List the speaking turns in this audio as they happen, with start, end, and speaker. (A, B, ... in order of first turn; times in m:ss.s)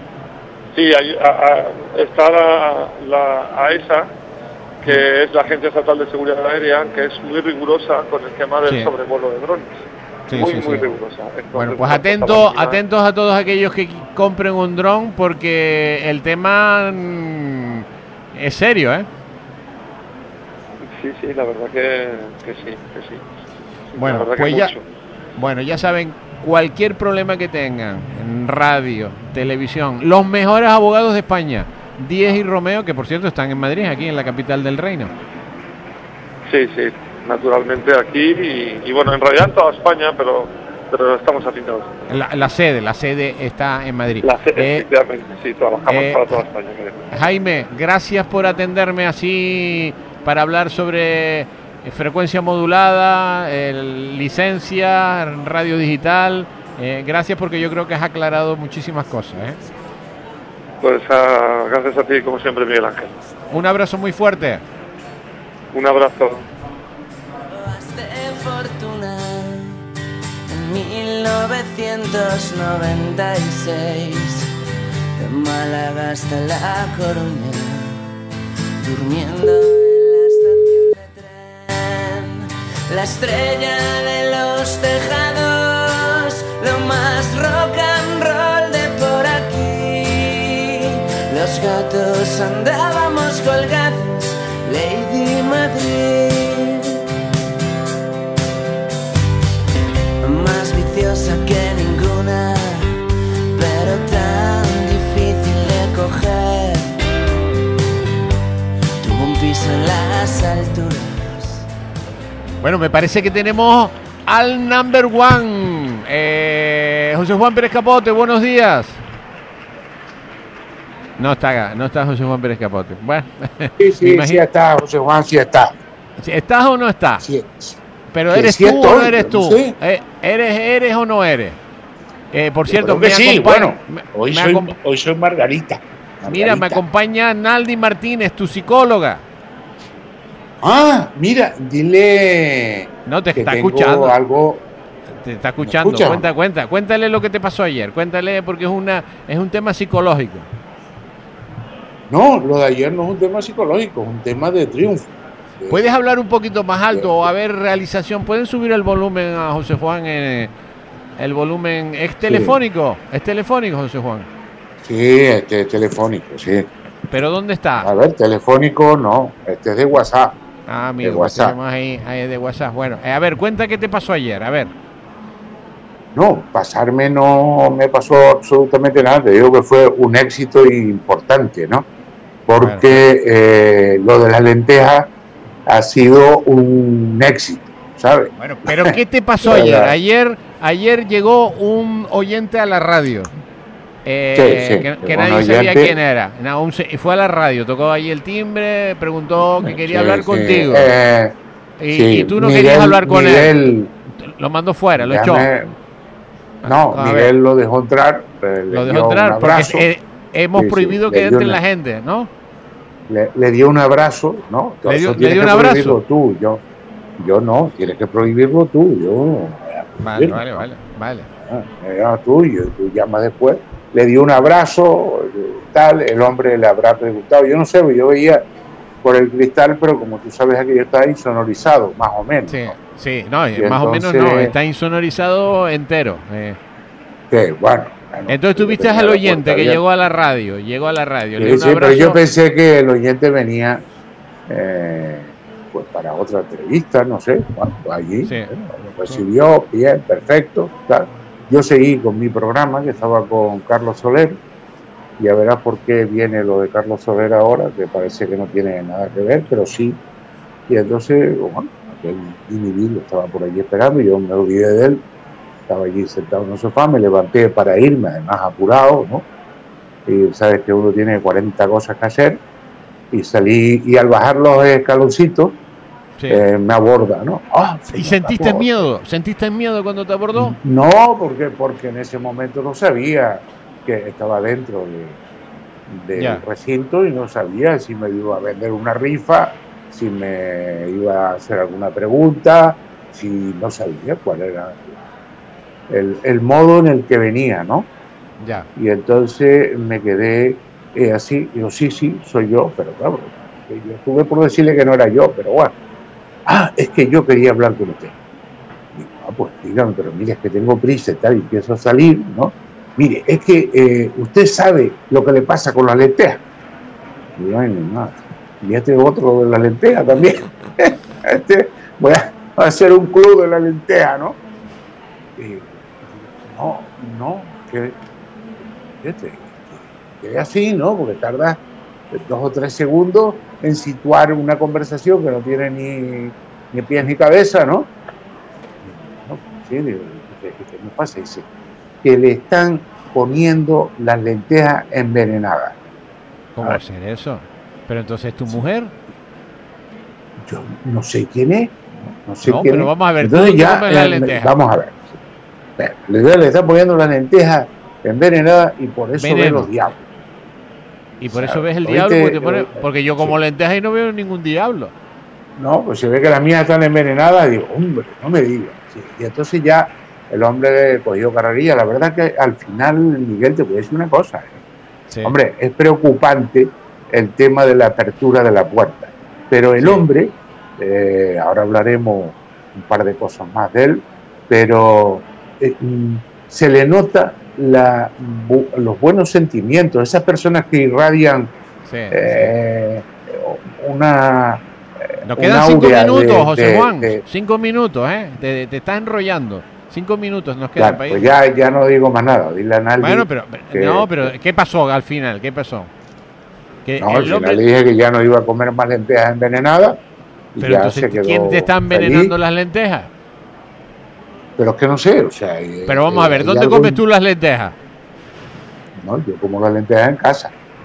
0:00.7-0:04.1 A
0:04.8-0:09.7 A
0:08.6-0:08.9 B
0:10.3-0:10.9 B
0:10.3-0:12.8 A
0:11.5-0:19.1 B
0:20.9-0:23.2 A
0:23.9-0:24.8 A
0:24.0-0:24.7 B
0:25.4-0:35.1 B
0:36.5-0:42.2 A
0:42.1-0:44.8 B
0:44.2-0:47.3 A
0:45.9-0:46.4 B
0:47.1-0:59.6 B
1:00.8-1:03.1 A
1:03.5-1:04.6 B
1:05.7-1:06.4 A
1:07.5-1:09.7 C
1:10.5-1:14.5 C
1:15.2-1:18.0 C
1:18.8-1:36.8 C
1:40.2-1:43.0 C
1:43.5-1:46.9 C
1:49.0-1:51.6 C
1:52.6-1:59.0 B
2:01.2-2:04.4 B
2:03.8-2:05.8 D
2:06.2-2:07.2 B
2:07.2-2:07.8 D
2:08.1-2:11.6 B
2:08.3-2:09.8 D
2:12.3-2:14.7 B
2:12.7-2:16.8 D
2:16.2-2:19.2 B
2:20.6-2:24.6 D
2:23.0-2:24.2 B
2:25.2-2:30.4 B
2:25.6-2:26.3 D
2:32.1-2:35.9 D
2:35.7-2:40.5 B
2:36.9-2:37.3 D
2:41.2-2:44.3 B
2:42.2-2:42.6 D
2:44.8-2:46.7 D
2:47.1-2:47.9 B
2:47.8-2:50.4 D
2:50.7-2:54.7 B
2:51.0-2:51.6 D
2:56.1-3:01.9 D
3:02.5-3:05.1 D
3:02.6-3:03.0 B
3:05.7-3:09.9 D
3:08.4-3:13.3 B
3:14.0-3:20.9 B
3:14.3-3:16.0 D
3:19.6-3:21.4 D
3:21.8-3:23.6 B
3:21.9-3:23.9 D
3:24.2-3:25.5 B
3:25.0-3:25.7 D
3:26.6-3:27.3 B
3:26.6-3:29.9 D
3:28.7-3:32.3 B
3:30.5-3:31.6 D
3:33.1-3:36.6 D
3:34.8-3:36.0 B
3:37.2-3:40.6 D
3:40.0-3:41.3 B
3:41.4-3:48.4 D
3:49.0-3:52.8 D
3:52.5-3:56.6 B
3:53.6-3:54.5 D
3:57.3-3:59.8 D
3:58.3-4:02.2 B
4:01.4-4:03.8 D
4:04.5-4:14.4 D
4:08.2-4:08.5 B
4:15.2-4:20.0 D
4:20.7-4:25.0 D
4:25.7-4:29.2 D
4:30.0-4:32.4 D
4:33.1-4:35.6 D
4:36.2-4:36.4 B
4:36.3-4:38.9 D
4:38.0-4:40.5 B
4:40.3-4:45.2 D
4:45.9-4:54.9 D
4:46.1-4:46.4 B
4:55.9-4:57.9 D
4:58.4-4:58.7 B
4:58.8-5:05.7 D
5:06.5-5:08.1 D
5:08.9-5:16.4 D
5:17.4-5:24.4 D
5:25.4-5:28.0 D
5:29.0-5:37.9 D
5:38.8-5:41.5 D
5:42.0-5:45.8 D
5:46.6-5:48.9 B
5:50.4-5:55.2 D
5:52.4-5:54.5 B
5:55.8-6:00.1 D
5:59.2-5:59.7 B
6:01.2-6:04.9 B
6:01.2-6:03.4 D
6:05.6-6:14.6 D
6:15.1-6:15.3 B
6:15.2-6:31.5 D
6:19.8-6:20.0 B
6:31.9-6:32.5 B
6:32.1-6:34.6 D
6:35.2-6:41.4 B
6:35.2-6:37.2 D
6:40.8-6:44.3 D
6:43.0-6:45.9 B
6:46.8-6:47.6 B
6:47.0-6:50.0 D
6:50.6-6:52.3 D
6:50.6-6:53.1 B
6:54.6-6:57.0 D
6:55.8-6:57.7 B
6:59.0-7:00.5 D